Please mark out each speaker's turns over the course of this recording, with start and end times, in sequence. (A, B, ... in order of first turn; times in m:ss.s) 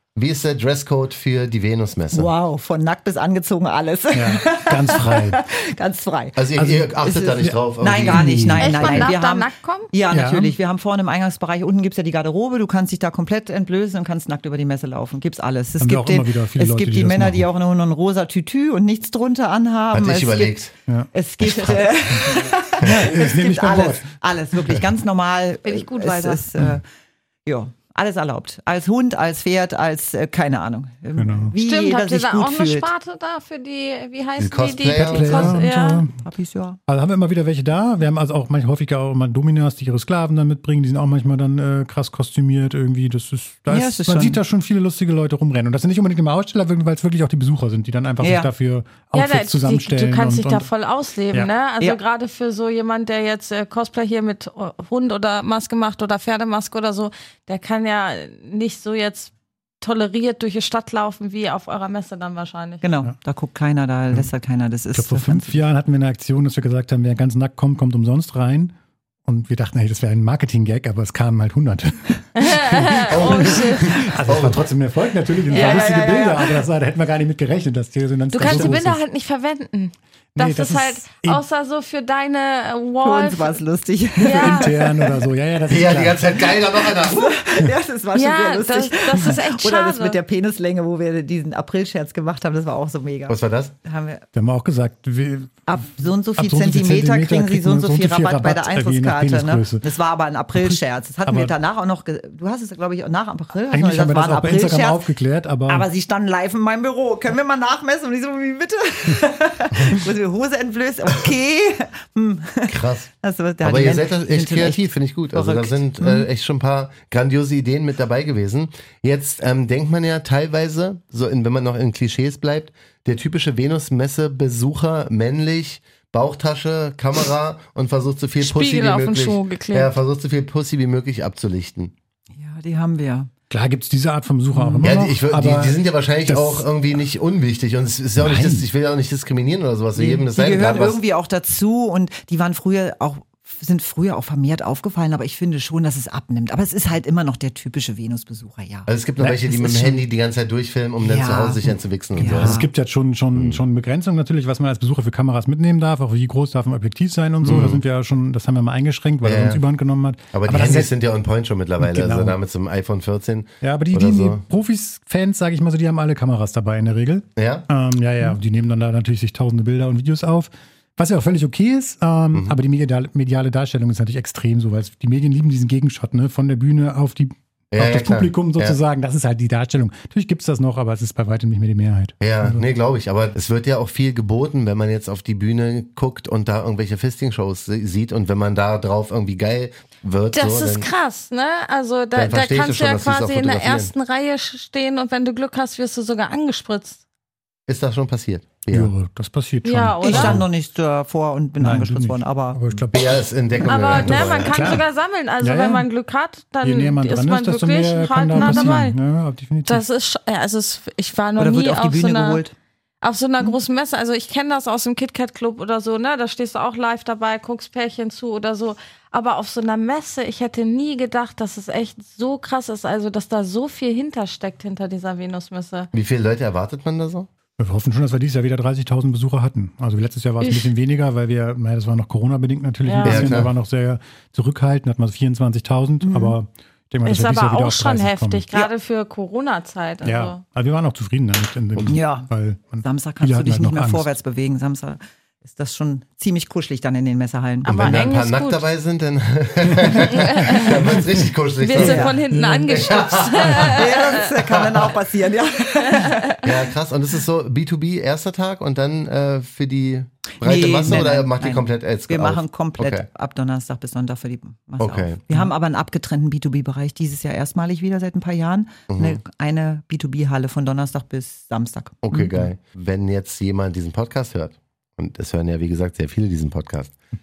0:00.2-0:02.3 A
0:02.1-0:06.4 B
0:04.1-0:05.4 C
0:06.4-0:09.1 A
0:06.6-0:07.6 C
0:07.0-0:20.6 B
0:08.1-0:08.6 C
0:08.6-0:09.9 D
0:10.1-0:10.5 C
0:15.8-0:17.5 C
0:19.9-0:20.7 A
0:20.9-0:24.1 C
0:21.1-0:26.8 B
0:22.8-0:23.1 A
0:25.6-0:26.4 D
0:27.4-0:32.9 B
0:31.1-0:31.5 C
0:31.6-0:36.1 D
0:34.4-0:35.6 A
0:34.9-0:36.1 C
0:36.2-0:36.8 B
0:36.9-0:50.7 C
0:43.7-0:44.4 B
0:48.2-0:48.5 B
0:49.1-1:02.8 D
1:02.8-1:05.6 B
1:04.9-1:08.7 C
1:09.2-1:19.0 C
1:12.4-1:14.1 D
1:13.1-1:14.7 A
1:15.5-1:16.6 B
1:15.5-1:16.2 D
1:18.3-1:23.6 D
1:18.4-1:18.7 B
1:20.4-1:21.4 C
1:23.0-1:25.2 B
1:24.2-1:26.2 C
1:24.2-1:24.8 D
1:25.7-1:27.4 A
1:26.8-1:34.2 B
1:28.1-1:30.2 D
1:33.3-1:33.7 A
1:34.3-1:35.6 C
1:35.7-1:45.0 B
1:36.4-1:39.8 C
1:40.6-1:41.5 C
1:43.7-1:45.9 C
1:45.7-1:56.2 B
1:52.7-1:53.1 A
1:53.6-2:11.9 A
2:08.4-2:09.9 D
2:12.4-2:13.3 B
2:13.5-2:16.6 C
2:14.5-2:14.9 B
2:14.8-2:21.0 A
2:18.2-2:18.6 C
2:19.9-2:29.9 B
2:28.9-2:32.7 A
2:29.2-2:29.8 C
2:31.0-2:32.6 B
2:32.2-2:40.9 C
2:33.3-2:33.6 A
2:37.4-2:37.8 A
2:39.2-2:39.6 A
2:40.3-2:44.4 A
2:41.8-2:42.4 C
2:43.6-3:02.6 C
2:47.4-2:47.7 A
2:57.7-2:58.8 A
3:02.2-3:10.9 A
3:10.3-3:17.0 D
3:12.1-3:13.9 A
3:17.7-3:18.9 A
3:18.7-3:20.4 C
3:19.6-3:20.4 D
3:20.0-3:22.6 B
3:21.6-3:24.8 C
3:22.9-3:24.8 A
3:23.6-3:29.0 D
3:25.4-3:25.8 C
3:26.6-3:29.8 C
3:28.3-3:28.8 B
3:29.6-3:32.4 D
3:31.4-3:32.5 B
3:33.0-3:45.9 D
3:45.9-3:47.3 A
3:47.6-3:58.4 C
3:50.4-3:50.7 D
3:52.8-3:53.3 D
3:53.0-3:53.5 A
3:56.0-3:56.4 B
3:57.0-4:00.4 D
4:00.0-4:04.1 C
4:01.9-4:02.3 B
4:02.8-4:08.1 B
4:07.6-4:08.6 D
4:07.7-4:12.1 A
4:10.1-4:10.8 D
4:10.6-4:11.0 C
4:11.6-4:14.1 D
4:11.8-4:12.2 B
4:12.3-4:12.9 C
4:12.7-4:13.8 A
4:13.7-4:16.2 B
4:14.4-4:14.8 A
4:15.9-4:16.5 D
4:16.4-4:23.0 A
4:20.4-4:32.3 B
4:24.8-4:25.3 A
4:28.9-4:29.2 A
4:32.0-4:36.9 A